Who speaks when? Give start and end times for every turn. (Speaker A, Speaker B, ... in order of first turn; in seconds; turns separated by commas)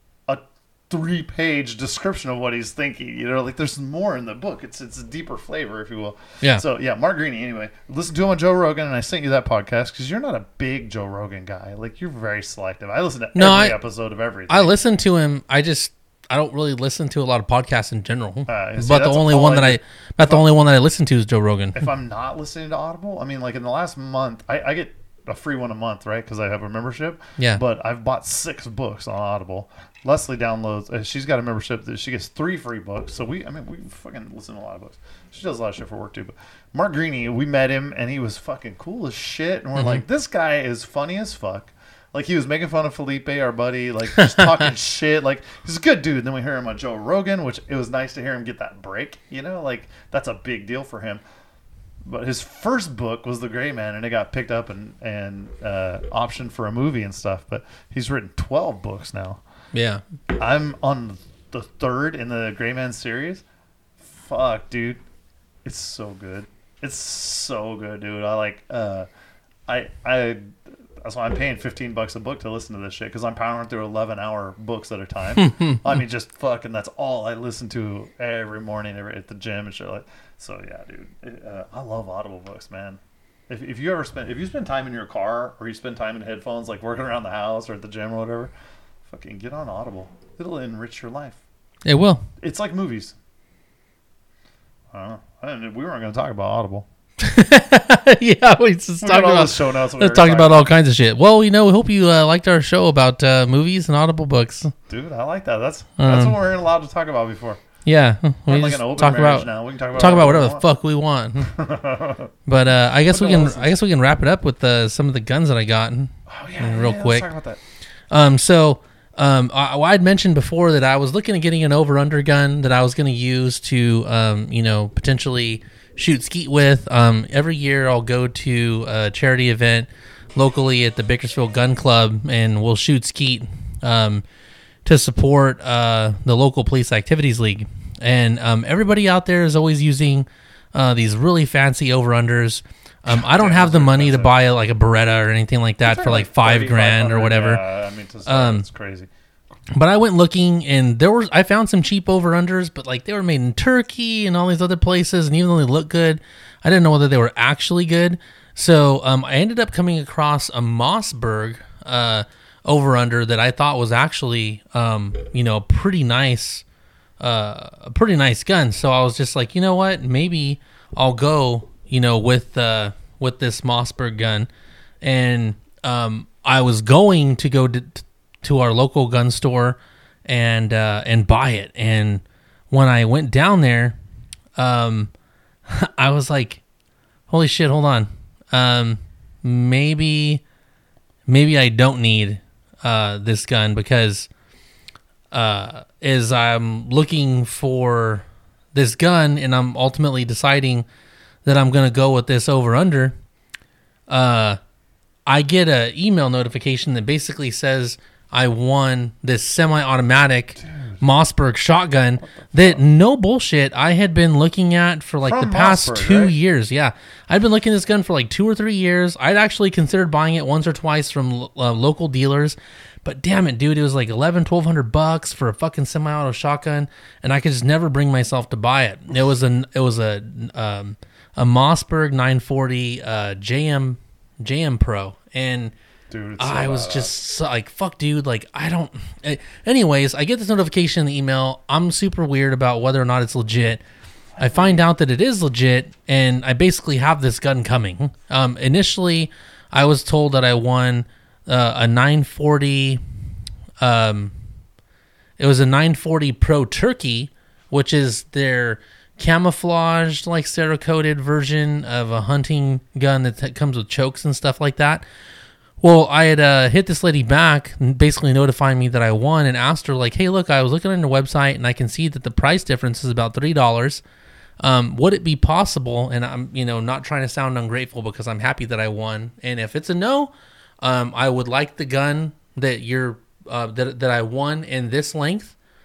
Speaker A: 0.3-14.7, Speaker B: 13.3-13.8, Speaker B: 14.5-21.8, Speaker A: 18.5-20.4, Speaker A: 21.7-51.2, Speaker B: 39.8-40.0, Speaker B: 44.2-44.7, Speaker A: 52.0-59.4, Speaker B: 59.7-60.0, Speaker A: 60.4-63.4, Speaker A: 64.0-65.0, Speaker A: 65.6-69.1, Speaker A: 69.7-70.4, Speaker A: 71.0-88.5, Speaker B: 75.4-75.8, Speaker A: 89.1-91.4, Speaker B: 91.8-92.2, Speaker A: 92.4-93.1, Speaker A: 94.9-96.8, Speaker B: 97.2-104.7, Speaker A: 99.0-100.7, Speaker A: 104.9-107.6, Speaker B: 106.0-106.3, Speaker B: 107.8-111.5, Speaker A: 108.5-110.6, Speaker A: 111.4-112.3, Speaker B: 112.5-117.2, Speaker A: 113.1-113.7, Speaker A: 116.3-117.6, Speaker B: 118.1-134.2, Speaker B: 134.8-147.6, Speaker A: 143.1-144.3, Speaker A: 145.8-149.1, Speaker B: 148.2-148.6, Speaker B: 149.7-166.6, Speaker B: 167.2-174.5, Speaker B: 175.0-184.0, Speaker B: 184.6-185.1, Speaker B: 185.7-186.6, Speaker B: 187.3-190.4, Speaker B: 191.2-194.3, Speaker B: 195.3-200.8, Speaker B: 201.4-203.1, Speaker B: 204.1-204.6, Speaker B: 205.2-235.7, Speaker A: 210.6-211.0, Speaker A: 212.2-212.8, Speaker A: 215.2-216.3, Speaker A: 236.1-237.1, Speaker B: 236.4-243.8, Speaker B: 244.4-253.0, Speaker A: 244.4-244.8, Speaker B: 253.8-254.3, Speaker B: 255.4-265.0, Speaker B: 265.8-274.0, Speaker B: 274.6-285.5